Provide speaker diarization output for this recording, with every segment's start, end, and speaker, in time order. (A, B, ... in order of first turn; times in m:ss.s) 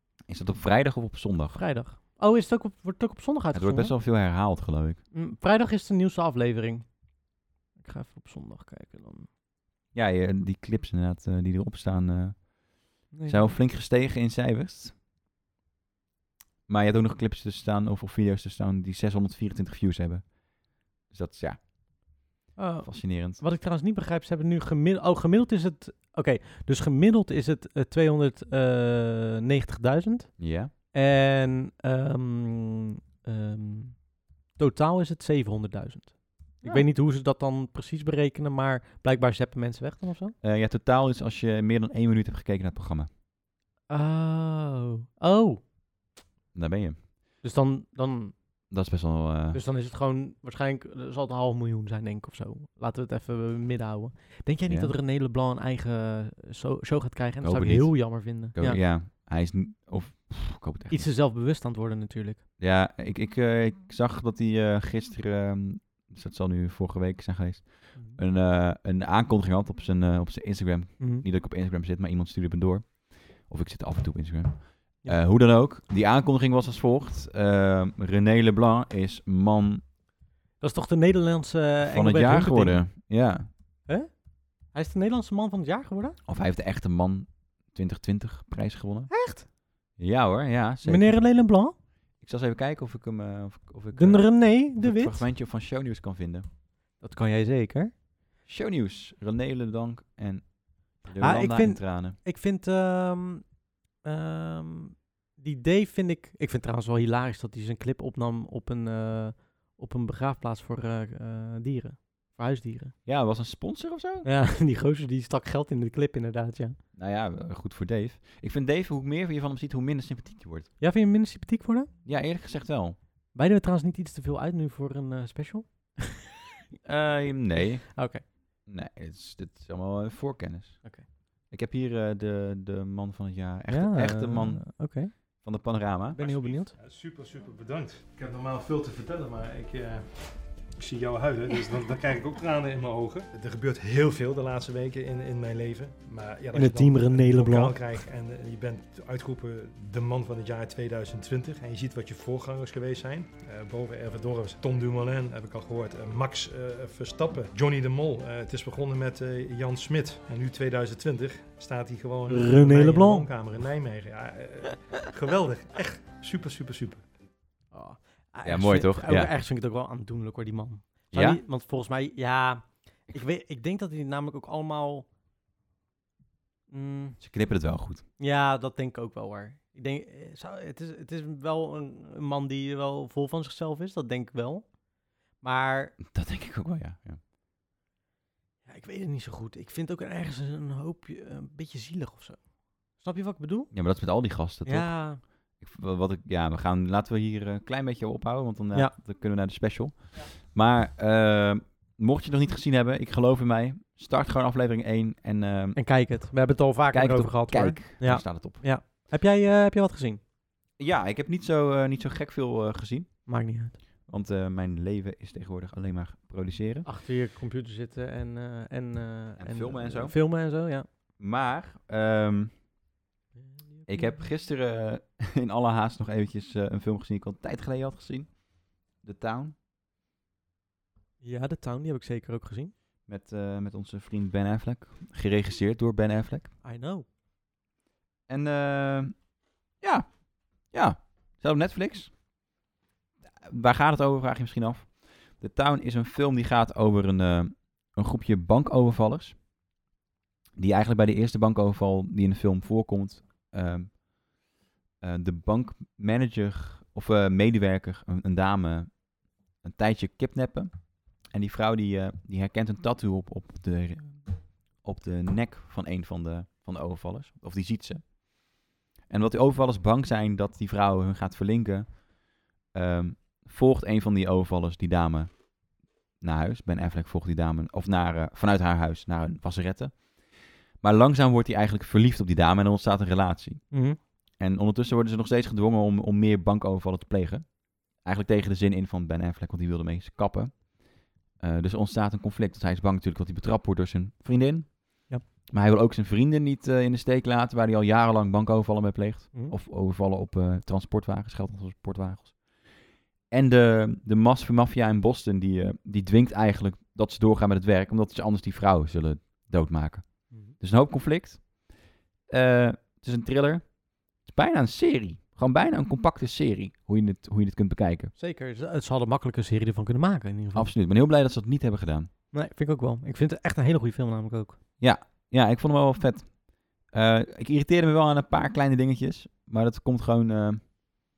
0:00.3-0:01.6 A
0:01.6-0:03.9 B
0:03.5-0:05.0 A
0:05.1-0:06.9 B
0:07.8-0:09.3 B
0:09.9-0:12.5 A
0:13.1-0:15.0 A
0:13.1-0:13.5 B
0:16.7-0:20.4 A
0:21.1-0:21.6 A
0:22.6-0:34.0 B
0:22.8-0:23.4 A
0:30.4-0:30.7 A
0:34.6-0:40.4 B
0:40.4-0:43.1 A
0:43.9-0:45.6 B
0:46.5-0:47.0 A
0:47.4-0:48.4 B
0:48.7-0:49.6 A
0:49.5-0:58.8 B
0:54.7-0:54.9 A
0:57.4-1:01.1 A
1:00.9-1:02.4 B
1:02.6-1:19.8 A
1:11.0-1:11.2 B
1:20.6-1:22.8 B
1:21.9-1:23.5 A
1:24.7-1:26.2 B
1:26.3-1:29.1 A
1:29.1-1:29.5 B
1:30.0-1:31.2 A
1:30.8-1:31.8 B
1:32.2-1:36.5 A
1:33.9-1:35.2 B
1:37.0-1:37.9 B
1:38.5-1:42.2 A
1:41.2-1:43.5 B
1:44.0-1:53.0 B
1:53.1-1:54.3 A
1:54.2-1:56.8 B
1:56.9-2:00.7 A
2:00.8-2:01.9 B
2:02.0-2:03.0 A
2:03.3-2:06.2 B
2:06.8-2:10.8 A
2:07.9-2:08.2 B
2:11.5-2:16.2 A
2:13.7-2:15.2 B
2:16.2-2:47.0 C
2:16.2-2:16.7 B
2:26.5-2:27.8 B
2:42.3-2:43.3 B
2:47.7-2:55.1 B
2:48.4-2:49.3 A
2:51.1-2:51.4 A
2:56.7-2:57.2 B
2:57.2-2:58.0 A
2:58.2-3:04.8 B
3:05.4-3:06.0 B
3:06.0-3:07.2 A
3:08.7-3:12.4 B
3:13.0-3:13.7 B
3:13.7-3:25.8 A
3:14.6-3:15.2 B
3:25.8-3:30.2 B
3:26.9-3:28.6 A
3:30.8-3:33.2 A
3:33.3-3:33.8 B
3:34.1-3:36.9 A
3:36.8-3:40.9 B
3:39.4-3:40.2 A
3:41.2-3:42.5 A
3:43.4-3:44.1 B
3:43.9-3:48.4 A
3:49.0-3:49.6 A
3:51.2-3:52.7 B
3:53.1-3:56.5 A
3:56.6-3:57.0 B
3:58.3-3:59.2 A
3:59.8-4:02.1 A
4:03.4-4:09.4 A
4:10.6-4:14.0 A
4:15.0-4:19.0 A
4:19.6-4:28.1 A
4:29.1-4:32.0 A
4:32.7-4:35.5 A
4:36.2-4:40.1 A
4:40.8-4:43.7 A
4:43.7-4:44.0 B
4:44.4-4:50.7 A
4:51.4-5:02.4 A
5:03.3-5:11.5 A
5:10.3-5:10.6 B
5:12.3-5:13.7 A
5:14.2-5:18.1 A
5:18.2-5:20.7 B
5:20.6-5:22.1 A
5:22.3-5:24.6 B
5:24.8-5:30.6 A